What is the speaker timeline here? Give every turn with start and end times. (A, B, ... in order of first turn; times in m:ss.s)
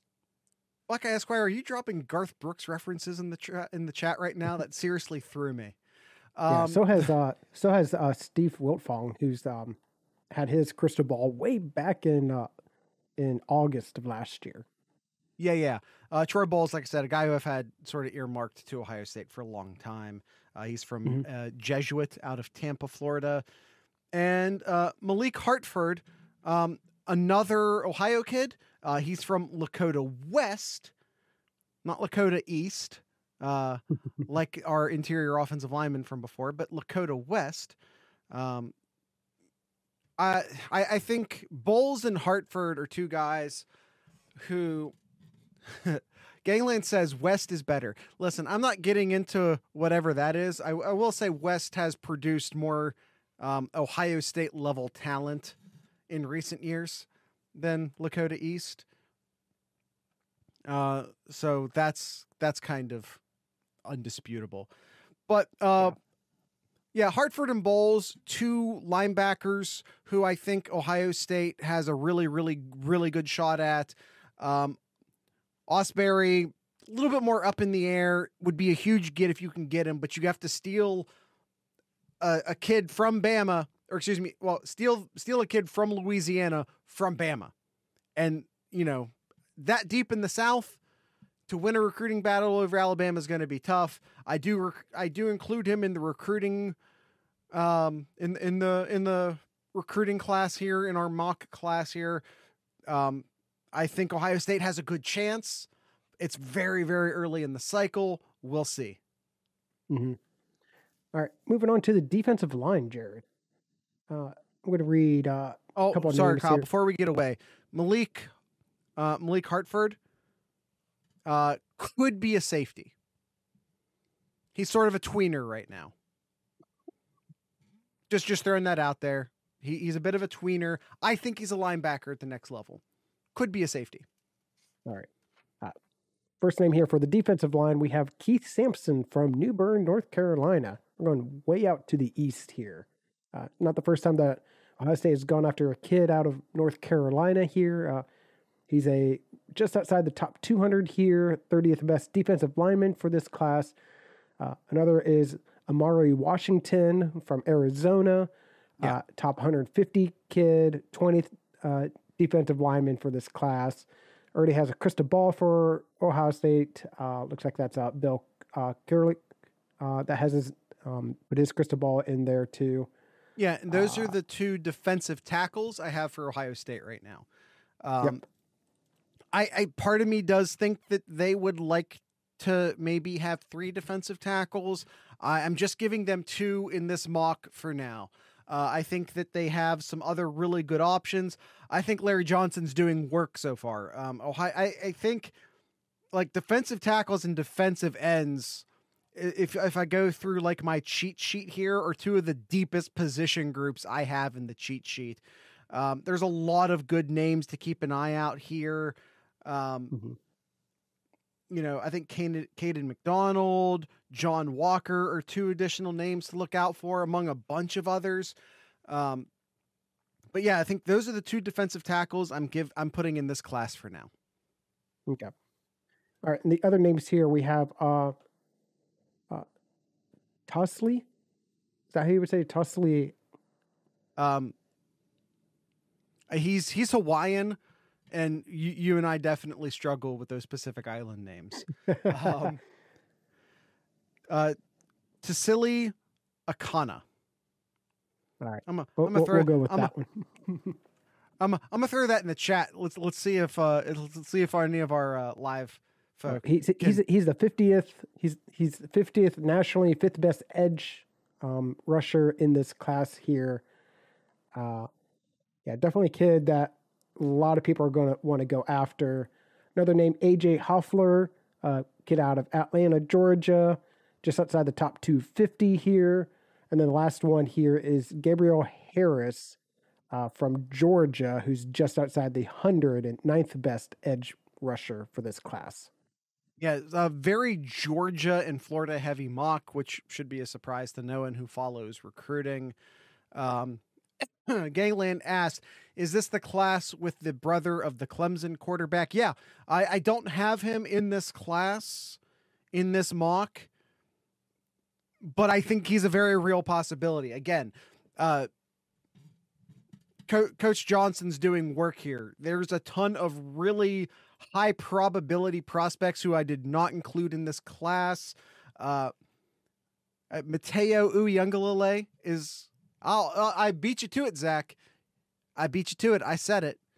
0:00.9-0:05.8 A
0:06.4-0:07.1 A
0:06.5-0:09.8 B
0:10.3-0:12.5 B
0:13.2-0:14.7 B
0:15.4-0:23.4 A
0:24.1-0:30.9 A
0:31.8-0:37.8 A
0:38.3-0:38.7 A
0:40.2-0:43.7 A
0:44.4-0:45.0 A
0:45.7-0:55.6 A
0:56.1-0:58.9 A
1:00.7-1:03.2 A
1:03.9-1:04.7 A
1:05.3-1:06.0 A
1:06.9-1:14.8 A
1:15.7-1:21.1 A
1:22.2-1:27.5 A
1:28.2-1:30.8 A
1:31.5-1:36.8 A
1:37.5-1:42.2 A
1:42.9-1:45.7 A
1:46.2-1:49.0 A
1:49.9-1:50.2 B
1:51.1-1:53.2 B
1:54.1-1:56.7 B
1:55.8-1:58.3 A
1:59.0-2:00.0 A
2:01.3-2:02.9 A
2:04.6-2:05.9 A
2:08.1-2:12.8 A
2:13.4-2:14.1 A
2:16.4-2:28.0 B
2:28.7-2:33.8 B
2:34.4-2:49.2 B
2:49.8-2:52.9 B
2:53.4-2:57.3 A
2:53.7-2:54.2 B
2:57.8-2:58.2 A
2:59.3-3:15.4 A
3:16.1-3:29.9 A
3:29.9-3:30.2 B
3:31.5-3:38.3 A
3:38.9-3:39.3 A
3:40.3-3:44.1 A
3:45.1-3:45.3 B
3:46.2-3:48.2 B
3:50.5-3:51.1 B
3:51.9-3:53.2 B
3:54.2-3:54.6 A
3:56.3-3:57.6 A
3:58.1-4:02.6 A
4:01.9-4:02.5 B
4:04.3-4:04.6 A
4:05.2-4:05.9 A
4:06.5-4:07.0 A
4:08.4-4:10.8 B
4:08.7-4:09.9 A
4:11.4-4:17.0 A
4:16.3-4:23.6 B
4:24.5-4:24.9 B
4:25.7-4:39.6 B
4:40.1-4:45.9 B
4:46.6-4:52.8 A
4:53.3-5:02.2 A
5:02.7-5:03.7 A
5:05.2-5:08.5 A
5:10.3-5:19.1 A
5:20.3-5:24.8 A
5:25.6-5:26.8 A